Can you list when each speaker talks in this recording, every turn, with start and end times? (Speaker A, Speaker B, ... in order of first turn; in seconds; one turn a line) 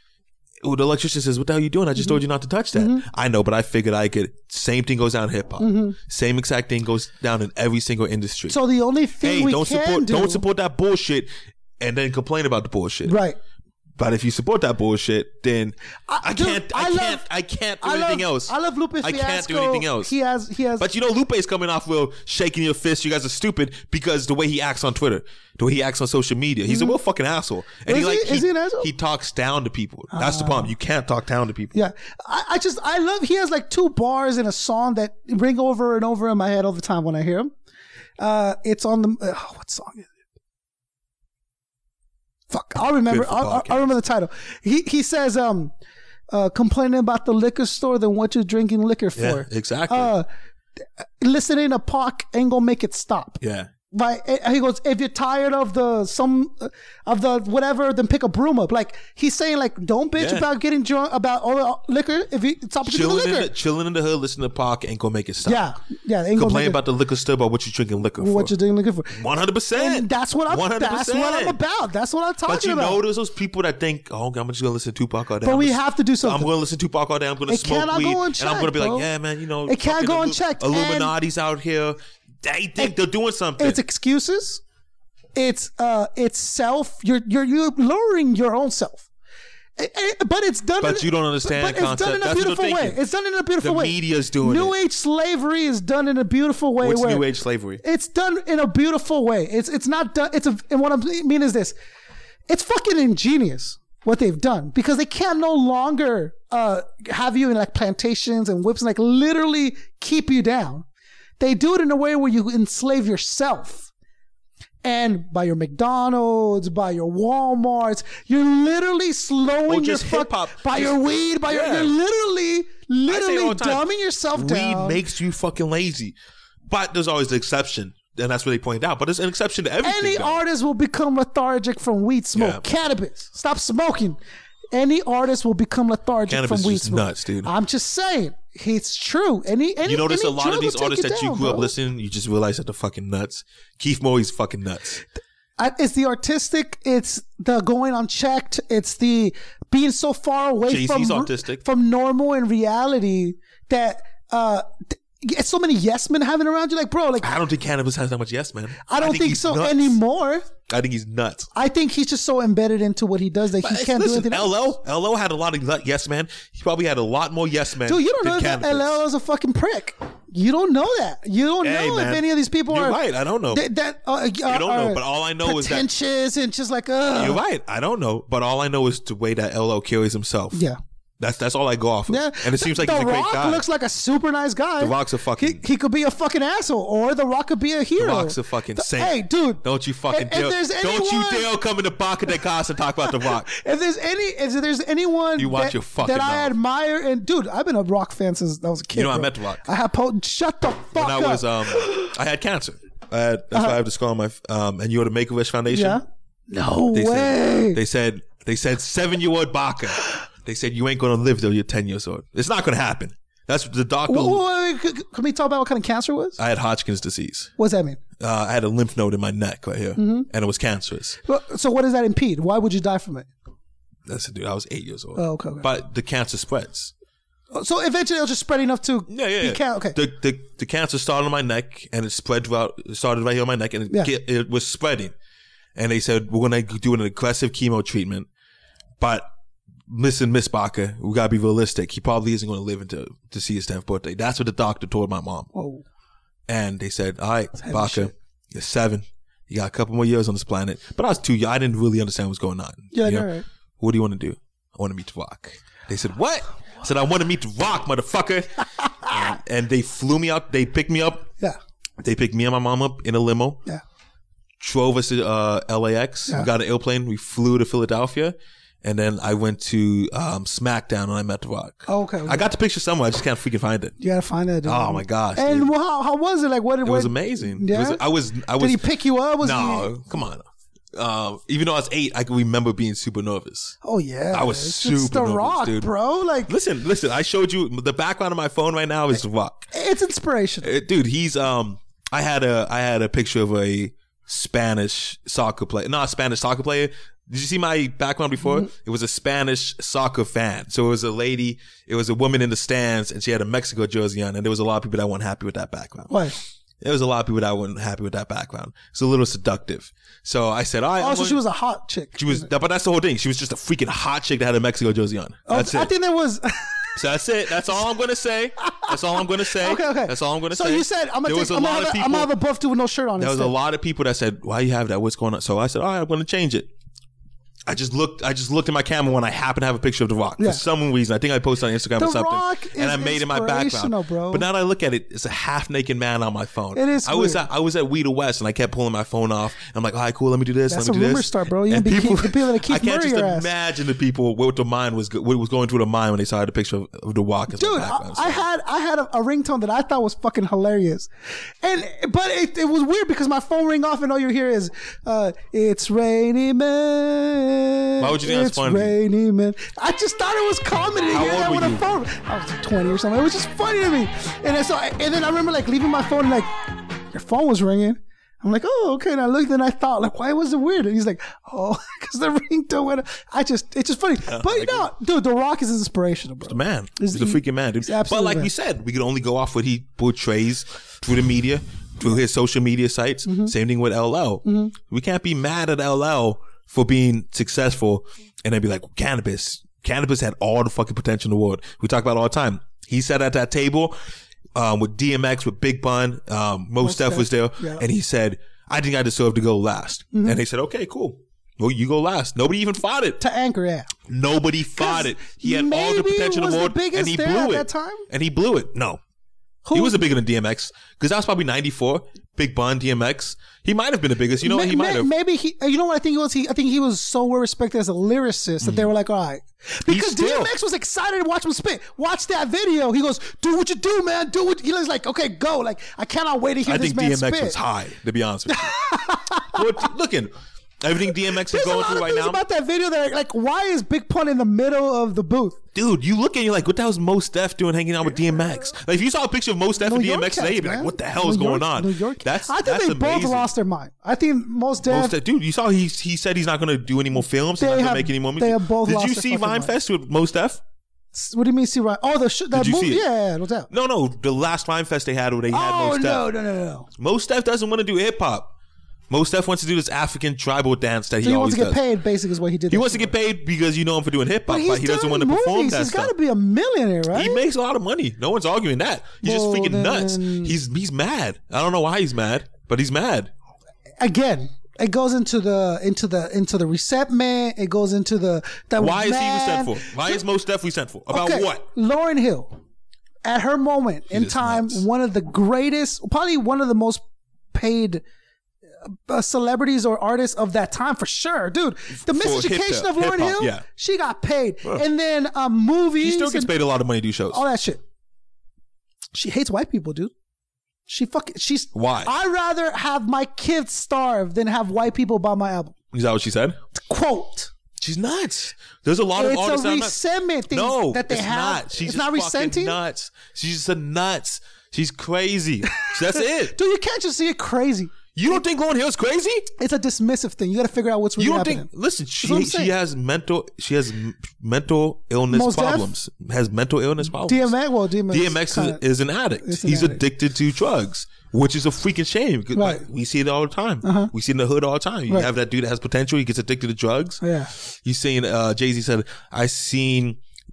Speaker A: 0.6-8.6
Speaker B: 2.7-3.0
Speaker B: 5.6-5.9
Speaker B: 8.5-10.4
Speaker A: 9.2-13.2
Speaker B: 13.1-13.4
Speaker A: 14.0-20.1
Speaker B: 16.1-17.2
Speaker B: 17.8-20.9
Speaker A: 20.8-31.8
Speaker B: 26.7-26.9
Speaker B: 27.9-28.9
Speaker B: 30.1-30.7
Speaker B: 31.7-37.5
Speaker B: 38.2-40.1
Speaker B: 42.5-45.7
Speaker A: 43.0-43.9
Speaker B: 46.3-50.3
Speaker A: 49.1-50.1
Speaker B: 51.2-53.4
Speaker A: 53.4-53.7
Speaker B: 53.9-63.5
Speaker A: 60.1-60.5
Speaker A: 62.8-65.6
Speaker B: 65.5-66.8
Speaker A: 66.3-68.5
Speaker B: 68.2-69.2
Speaker A: 69.1-71.6
Speaker B: 69.7-73.0
Speaker A: 72.4-83.8
Speaker B: 75.4-76.5
Speaker B: 77.5-79.1
Speaker B: 79.7-81.1
Speaker B: 83.6-84.6
Speaker B: 85.3-89.0
Speaker B: 89.8-97.2
Speaker A: 90.8-93.0
Speaker A: 93.6-94.7
Speaker A: 96.8-97.8
Speaker B: 97.8-101.7
Speaker B: 102.5-110.8
Speaker B: 111.4-113.9
Speaker B: 114.8-125.0
Speaker A: 119.7-121.9
Speaker A: 123.1-126.2
Speaker A: 126.7-130.4
Speaker B: 129.8-134.2
Speaker A: 132.3-132.6
Speaker B: 134.7-141.7
Speaker A: 136.2-137.5
Speaker A: 139.8-145.0
Speaker B: 145.6-157.3
Speaker A: 150.7-151.6
Speaker A: 157.2-160.0
Speaker B: 158.9-160.4
Speaker A: 160.7-161.5
Speaker B: 161.5-164.6
Speaker A: 163.6-169.0
Speaker B: 167.8-173.0
Speaker A: 171.6-173.6
Speaker B: 173.5-177.4
Speaker A: 174.4-175.9
Speaker A: 177.1-180.6
Speaker B: 180.5-180.8
Speaker A: 181.2-183.7
Speaker B: 182.1-191.5
Speaker A: 184.8-185.6
Speaker A: 187.9-193.5
Speaker B: 193.1-202.1
Speaker A: 195.3-196.6
Speaker A: 198.9-199.7
Speaker A: 200.9-206.0
Speaker B: 205.7-207.8
Speaker A: 206.9-214.4
Speaker B: 214.1-216.4
Speaker A: 216.4-217.5
Speaker B: 217.6-218.0
Speaker A: 218.2-221.2
Speaker B: 220.0-220.3
Speaker B: 221.2-223.3
Speaker A: 224.1-226.9
Speaker B: 225.2-225.7
Speaker B: 227.5-230.0
Speaker A: 229.1-235.1
Speaker A: 235.8-238.3
Speaker A: 239.0-239.3
Speaker A: 239.9-245.5
Speaker B: 245.5-245.8
Speaker A: 246.5-261.3
Speaker B: 247.6-248.1
Speaker B: 252.9-253.4
Speaker B: 259.1-259.3
Speaker A: 262.0-263.6
Speaker A: 264.6-273.9
Speaker B: 271.9-272.4
Speaker B: 274.0-278.0
Speaker A: 274.6-275.7
Speaker A: 276.8-278.9
Speaker B: 278.6-279.9
Speaker A: 279.4-283.8
Speaker B: 283.8-286.5
Speaker A: 284.3-285.9
Speaker A: 286.5-289.7
Speaker B: 289.7-290.7
Speaker A: 290.6-306.2
Speaker B: 306.1-306.3
Speaker A: 306.8-311.4
Speaker B: 311.0-312.4
Speaker A: 312.1-315.9
Speaker B: 315.5-316.9
Speaker A: 316.9-322.3
Speaker B: 318.6-323.5
Speaker A: 323.2-326.7
Speaker A: 327.6-348.4
Speaker B: 332.0-334.4
Speaker B: 336.7-337.4
Speaker B: 340.7-343.5
Speaker B: 347.5-351.1
Speaker B: 351.6-366.5
Speaker A: 358.0-359.0
Speaker A: 361.1-361.9
Speaker B: 367.1-378.5
Speaker A: 374.2-374.9
Speaker A: 376.4-393.9
Speaker B: 383.2-383.5
Speaker B: 384.4-384.7
Speaker A: 394.5-403.2
Speaker B: 396.8-397.8
Speaker B: 400.1-400.4
Speaker B: 403.2-403.9
Speaker A: 404.1-409.0
Speaker B: 404.7-408.0
Speaker B: 409.6-410.1
Speaker A: 409.7-415.1
Speaker B: 414.4-427.6
Speaker A: 418.6-418.9
Speaker A: 419.9-420.5
Speaker A: 426.6-428.8
Speaker B: 428.5-429.6
Speaker A: 429.5-432.4
Speaker B: 431.4-435.6
Speaker A: 435.7-443.5
Speaker B: 439.8-445.1
Speaker A: 444.9-450.6
Speaker B: 447.6-449.8
Speaker B: 451.1-453.7
Speaker A: 452.5-453.1
Speaker A: 453.7-456.3
Speaker B: 455.5-456.9
Speaker A: 457.0-458.5
Speaker A: 459.1-461.8
Speaker B: 461.2-463.1
Speaker A: 462.7-466.1
Speaker B: 464.5-467.4
Speaker A: 467.1-473.3
Speaker B: 469.2-470.5
Speaker B: 474.0-480.2
Speaker A: 478.8-481.6
Speaker B: 481.1-482.5
Speaker B: 483.2-487.0
Speaker A: 484.1-484.9
Speaker B: 487.5-488.0
Speaker B: 488.9-496.5
Speaker A: 491.9-493.6
Speaker A: 496.0-497.4
Speaker B: 497.3-497.8
Speaker B: 499.1-500.1
Speaker B: 500.9-505.7
Speaker A: 501.7-502.1
Speaker A: 505.9-506.6
Speaker B: 506.7-507.5
Speaker A: 507.8-510.0
Speaker B: 509.1-512.8
Speaker A: 510.5-516.5
Speaker B: 516.5-517.9
Speaker A: 518.1-519.5
Speaker B: 519.6-521.7
Speaker A: 521.2-527.5
Speaker B: 522.2-522.7
Speaker B: 525.3-525.9
Speaker B: 527.2-528.8
Speaker A: 528.1-540.2
Speaker B: 529.4-530.0
Speaker B: 532.5-532.8
Speaker B: 533.8-534.1
Speaker B: 537.2-537.5